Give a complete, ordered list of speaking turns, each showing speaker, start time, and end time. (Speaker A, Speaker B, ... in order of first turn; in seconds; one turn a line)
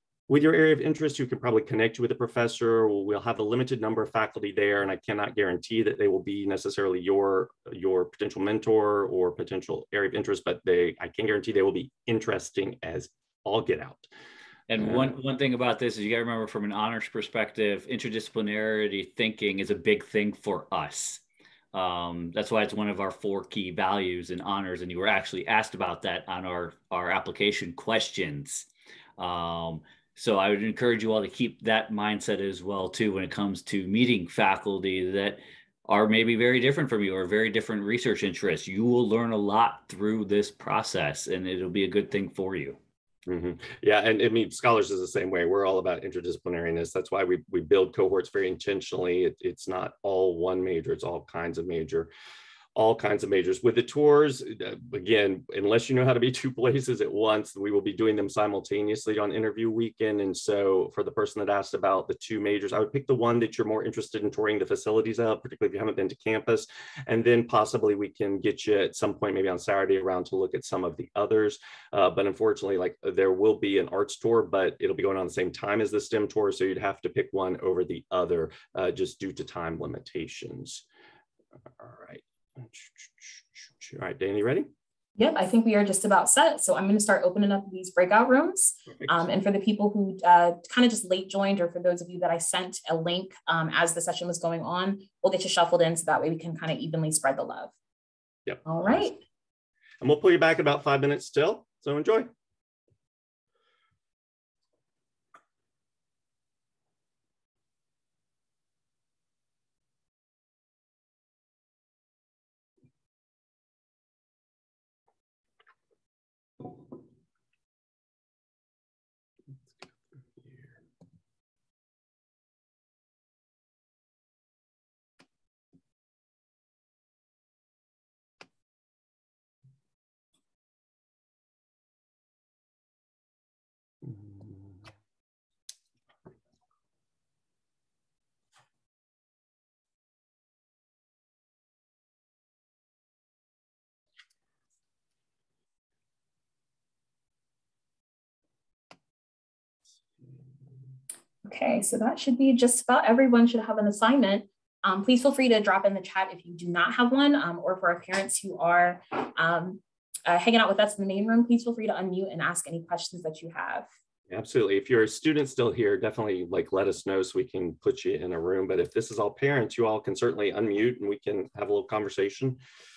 Speaker A: 0.3-14.1
Speaker B: 14.7-21.2
Speaker A: 14.8-15.1
Speaker B: 21.7-42.8
Speaker A: 43.3-52.1
Speaker A: 52.7-80.8
Speaker A: 81.8-84.7
Speaker C: 85.2-97.7
Speaker A: 88.9-89.2
Speaker A: 98.5-99.1
Speaker C: 98.7-99.2
Speaker A: 100.0-102.3
Speaker C: 151.4-163.9
Speaker A: 164.3-172.6